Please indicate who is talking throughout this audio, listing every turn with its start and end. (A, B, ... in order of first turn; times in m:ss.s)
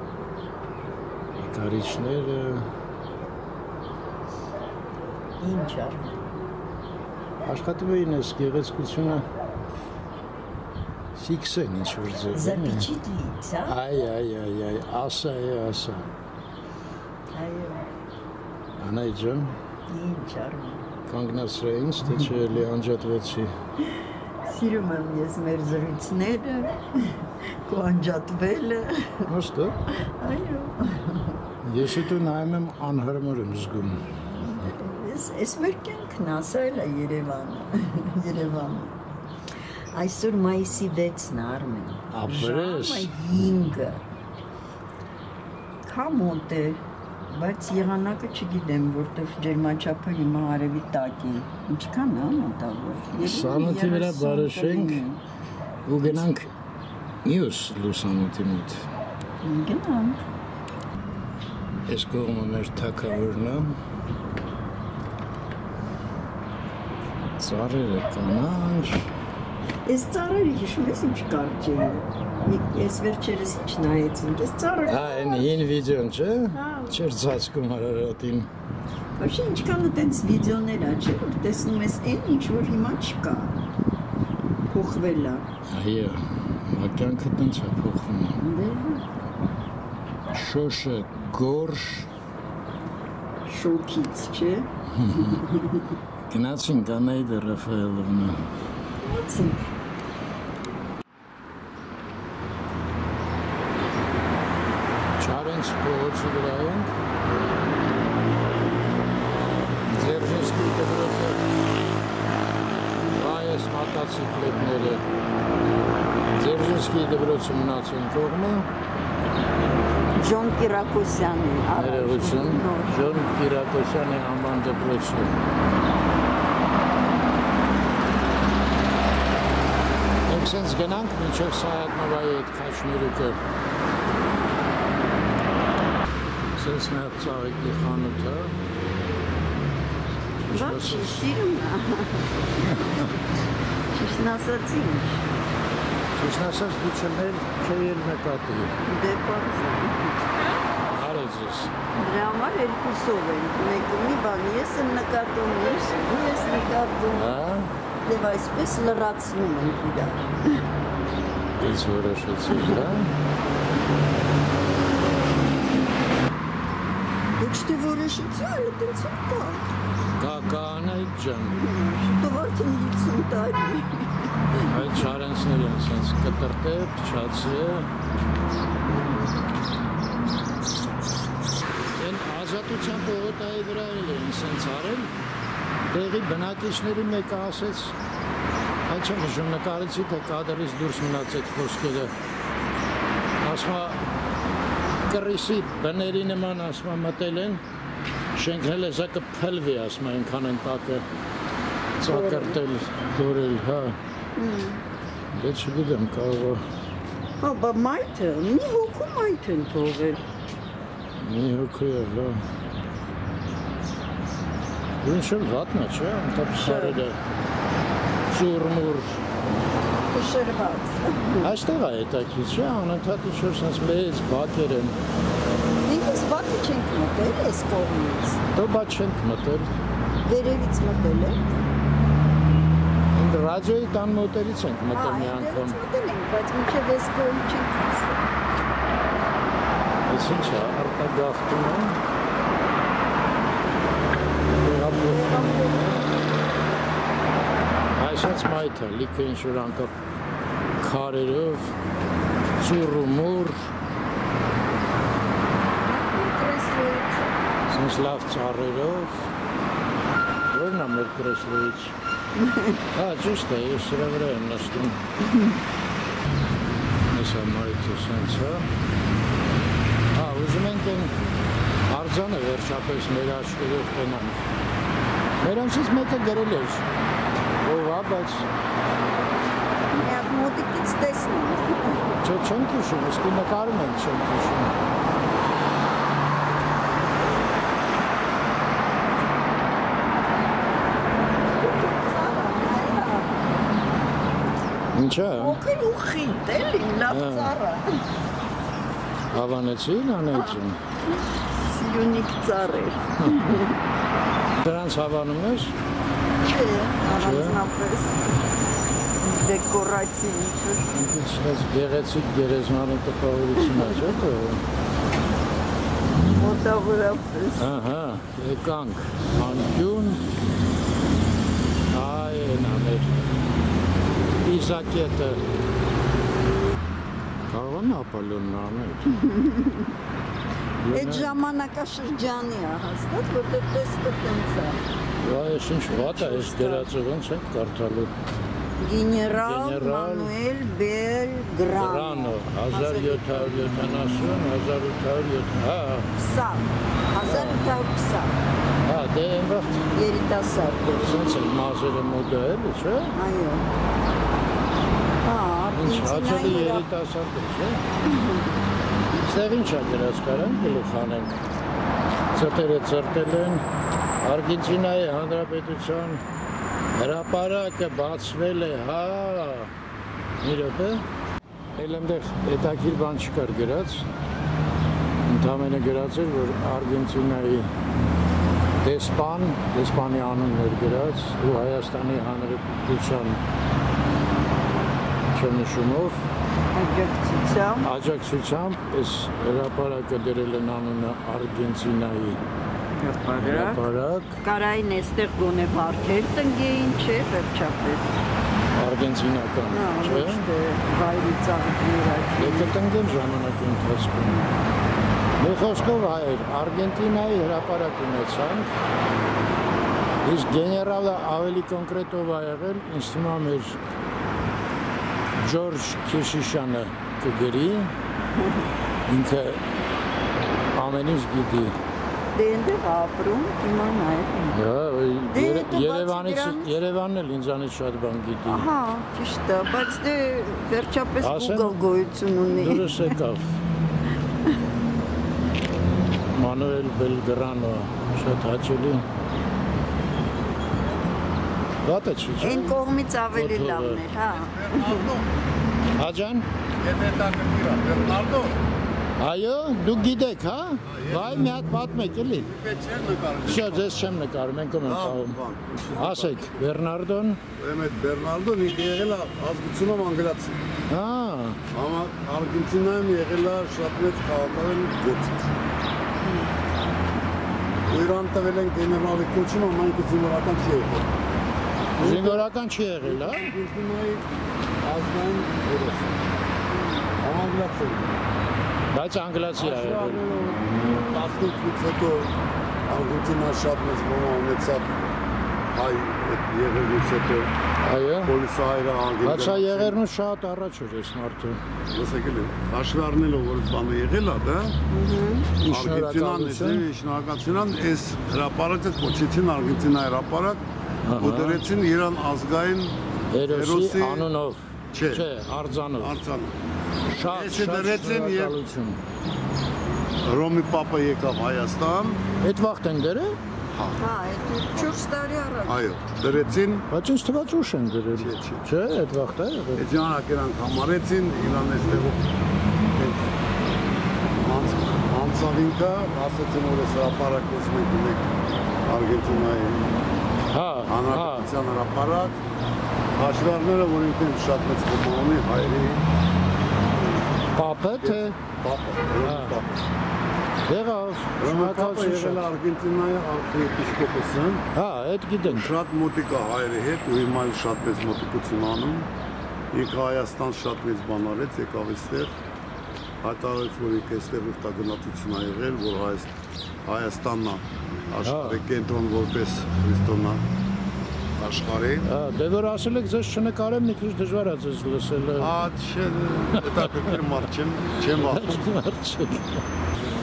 0:01.4-0:02.6 A
0:05.4-0:06.2 B
0:07.4-0:09.2 A
0:11.1-0:12.9 A
0:12.3-0:13.8 B
0:13.6-0:16.1 A
0:17.3-0:17.9 B
0:18.8-0:19.5 A
0:19.9-0:20.9 B
0:21.1-0:23.5 A
0:24.4-0:27.1 B
0:27.7-0:29.3 B
0:29.3-0:29.8 A
0:30.0-0:31.4 B
0:31.6-0:34.0 A
0:34.4-0:39.0 B
0:39.9-0:44.0 B
0:42.1-0:43.3 A
0:45.8-0:46.8 B
0:47.3-0:55.2 B
0:53.1-0:55.0 A
0:55.9-0:56.5 A
0:57.2-0:58.8 A
0:59.4-1:00.2 B
1:01.9-1:03.7 A
1:07.4-1:09.1 A
1:09.8-1:15.6 B
1:14.9-1:18.5 A
1:16.5-1:17.0 B
1:19.2-1:23.6 B
1:24.7-1:25.4 B
1:25.7-1:28.4 A
1:28.4-1:29.0 B
1:30.3-1:32.1 A
1:33.5-1:35.9 B
1:35.0-1:35.4 A
1:36.3-1:38.4 A
1:39.0-1:39.7 B
1:45.2-1:46.9 A
1:49.9-1:51.4 A
1:53.1-1:55.0 A
1:56.3-1:58.7 A
2:00.1-2:03.2 B
2:01.8-2:05.4 A
2:10.3-2:13.4 A
2:16.6-2:18.6 A
2:20.5-2:21.3 A
2:20.5-2:22.7 B
2:22.6-2:23.1 A
2:23.9-2:25.3 B
2:26.2-2:28.7 A
2:28.8-2:30.2 B
2:30.9-2:31.8 A
2:31.9-2:37.3 B
2:37.1-2:37.7 A
2:38.0-2:40.6 B
2:41.6-2:43.1 A
2:47.4-2:49.7 B
2:50.2-2:51.6 A
2:51.5-2:54.1 B
2:54.7-2:57.9 A
3:02.0-3:05.1 A
3:05.9-3:08.0 A
3:08.9-3:12.1 A
3:13.4-3:14.0 A
3:15.1-3:17.6 A
3:18.3-3:21.0 A
3:22.0-3:24.0 A
3:22.1-3:22.6 B
3:24.4-3:24.8 B
3:25.3-3:26.6 A
3:27.4-3:30.2 B
3:31.2-3:32.4 A
3:35.0-3:37.2 A
3:36.5-3:37.0 B
3:38.3-3:39.2 A
3:40.1-3:41.5 B
3:41.4-3:45.0 A
3:45.8-3:48.4 B
3:48.5-3:49.7 A
3:50.2-3:51.6 B
3:53.1-3:55.8 A
3:54.9-3:58.2 B
4:00.1-4:02.0 A
4:04.6-4:06.0 A
4:05.0-4:06.0 B
4:08.0-4:09.9 A
4:10.8-4:11.7 A
4:12.6-4:13.7 A
4:15.9-4:17.2 B
4:17.7-4:19.2 A
4:20.5-4:21.9 A
4:22.4-4:22.8 B
4:22.9-4:25.0 A
4:27.1-4:28.7 A
4:30.1-4:31.1 A
4:31.9-4:34.4 A
4:35.4-4:36.9 A
4:37.6-4:38.5 A
4:39.9-4:42.2 B
4:42.2-4:44.8 A
4:51.6-4:53.4 B
4:54.9-4:55.6 A
4:55.3-4:58.0 B
4:57.1-4:57.5 A
4:59.3-5:00.8 A
5:01.4-5:03.8 B
5:03.2-5:03.5 A
5:04.6-5:05.8 A
5:06.4-5:08.2 B
5:07.1-5:07.6 A
5:09.2-5:10.9 B
5:10.9-5:14.6 A
5:16.4-5:17.7 B
5:17.6-5:20.2 A
5:21.9-5:23.3 A
5:24.4-5:25.4 A
5:27.5-5:29.2 A
5:29.1-5:29.9 B
5:30.8-5:31.4 A
5:30.9-5:34.8 B
5:35.2-5:38.1 A
5:35.9-5:36.9 B
5:38.8-5:44.0 B
5:39.4-5:40.3 A
5:41.8-5:46.1 A
5:46.1-5:48.4 B
5:47.2-5:47.7 A
5:48.8-5:49.9 A
5:49.9-5:51.1 B
5:50.9-5:53.1 A
5:53.1-5:53.7 B
5:55.2-5:56.9 B
5:55.7-5:57.8 A
5:58.0-5:58.5 B
5:59.1-6:01.4 A
6:02.3-6:03.6 A
6:04.2-6:06.2 A
6:06.9-6:09.7 A
6:10.4-6:11.0 A
6:11.8-6:14.1 A
6:15.2-6:17.7 A
6:18.8-6:23.4 A
6:25.3-6:26.2 A
6:26.7-6:27.9 B
6:27.8-6:32.4 A
6:32.9-6:33.9 B
6:33.4-6:34.4 A
6:34.4-6:38.1 B
6:38.7-6:40.5 A
6:39.7-6:42.7 B
6:42.4-6:44.4 A
6:44.2-6:44.5 B
6:45.4-6:48.7 A
6:50.2-6:53.8 A
6:55.4-6:57.9 A
6:58.4-6:58.6 B
6:59.1-6:59.6 A
7:00.7-7:01.8 A
7:02.3-7:04.6 B
7:04.5-7:08.7 A
7:05.3-7:06.7 B
7:08.5-7:13.2 B
7:11.2-7:11.8 A
7:12.5-7:13.6 A
7:16.3-7:19.0 A
7:21.8-7:22.8 A
7:22.4-7:25.1 B
7:23.3-7:24.1 A
7:24.2-7:25.3 C
7:26.0-7:26.5 A
7:26.8-7:28.6 C
7:29.2-7:32.5 A
7:30.9-7:31.5 C
7:32.4-7:34.1 C
7:33.4-7:35.4 A
7:34.8-7:36.5 C
7:35.9-7:37.4 A
7:37.6-7:40.6 C
7:40.9-7:41.6 A
7:41.7-7:45.5 C
7:46.2-7:46.5 B
7:47.9-7:51.1 C
7:52.0-7:52.5 C
7:52.0-7:53.5 A
7:53.0-7:54.2 C
7:54.8-7:56.2 C
7:56.7-7:57.1 B
7:57.2-7:58.2 C
7:58.9-8:00.3 A
7:59.6-8:02.3 C
8:02.9-8:05.1 C
8:05.7-8:07.5 C
8:07.8-8:08.4 A
8:08.2-8:10.0 C
8:09.2-8:11.6 A
8:11.9-8:14.8 C
8:14.9-8:15.6 B
8:15.6-8:16.8 A
8:15.6-8:20.6 C
8:21.0-8:21.6 A
8:21.2-8:24.3 C
8:23.3-8:26.2 A
8:24.9-8:25.3 C
8:26.0-8:26.6 C
8:27.1-8:29.0 A
8:27.2-8:28.6 C
8:30.2-8:32.2 C
8:32.4-8:33.4 A
8:33.7-8:34.0 C
8:34.0-8:35.9 B
8:35.6-8:36.9 C
8:36.9-8:39.8 A
8:38.2-8:38.7 C
8:39.7-8:42.3 C
8:42.9-8:43.3 C
8:44.3-8:48.3 C
8:48.8-8:49.9 C
8:50.5-8:51.5 A
8:50.8-8:52.4 C
8:53.2-8:56.0 C
8:57.5-8:58.4 A
8:58.0-8:59.8 C
8:59.2-8:59.6 A
9:00.7-9:02.5 A
9:01.4-9:04.6 C
9:04.7-9:05.7 A
9:05.4-9:09.1 C
9:09.7-9:12.3 C
9:13.2-9:16.3 C
9:16.8-9:20.4 C
9:18.2-9:18.6 A
9:21.4-9:22.1 C
9:22.0-9:25.6 A
9:25.4-9:28.6 C
9:26.6-9:27.0 A
9:28.0-9:29.6 A